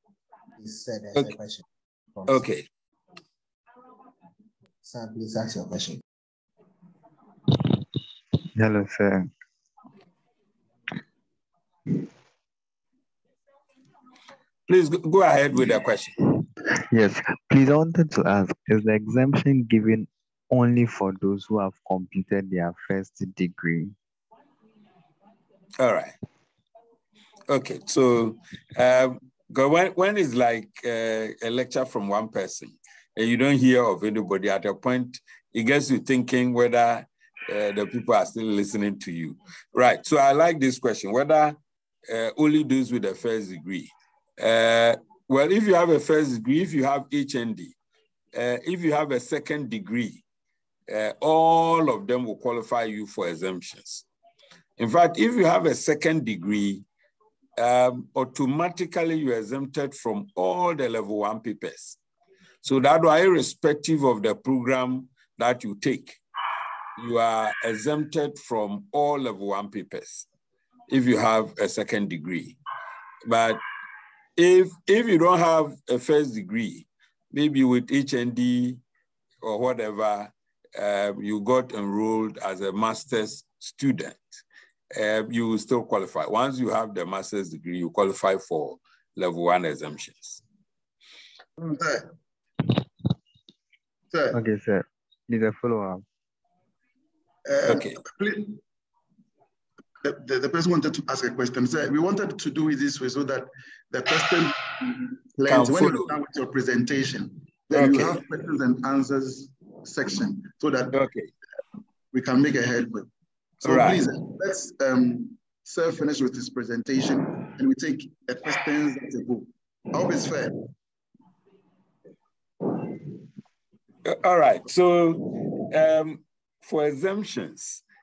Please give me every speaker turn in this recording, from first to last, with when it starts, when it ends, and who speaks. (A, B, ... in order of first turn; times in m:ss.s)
0:00.6-0:01.6 A
0:02.3-0:02.7 B
0:04.8-0:06.0 A
0:08.6-0:09.3 C
0:14.7-0:16.2 B
0:16.9-0:23.9 C
0:25.8-0:26.2 B
0:27.5-0:47.8 B
0:48.3-0:50.2 B
0:50.9-0:54.1 B
0:54.8-0:56.8 B
0:57.6-1:02.0 B
1:02.6-1:06.2 B
1:07.0-1:10.3 B
1:10.9-1:12.6 B
1:13.2-1:13.6 B
1:14.4-1:18.8 B
1:19.4-1:24.2 B
1:24.9-1:30.4 B
1:31.6-1:32.1 D
1:34.1-1:34.4 D
1:34.3-1:36.0 C
1:37.5-1:38.6 D
1:37.7-1:38.0 B
1:40.0-1:51.0 D
1:45.5-1:46.2 B
1:47.7-1:48.2 B
1:50.9-1:51.3 B
1:52.1-1:53.1 D
1:53.6-1:54.0 B
1:53.6-2:00.6 D
2:04.0-2:07.8 B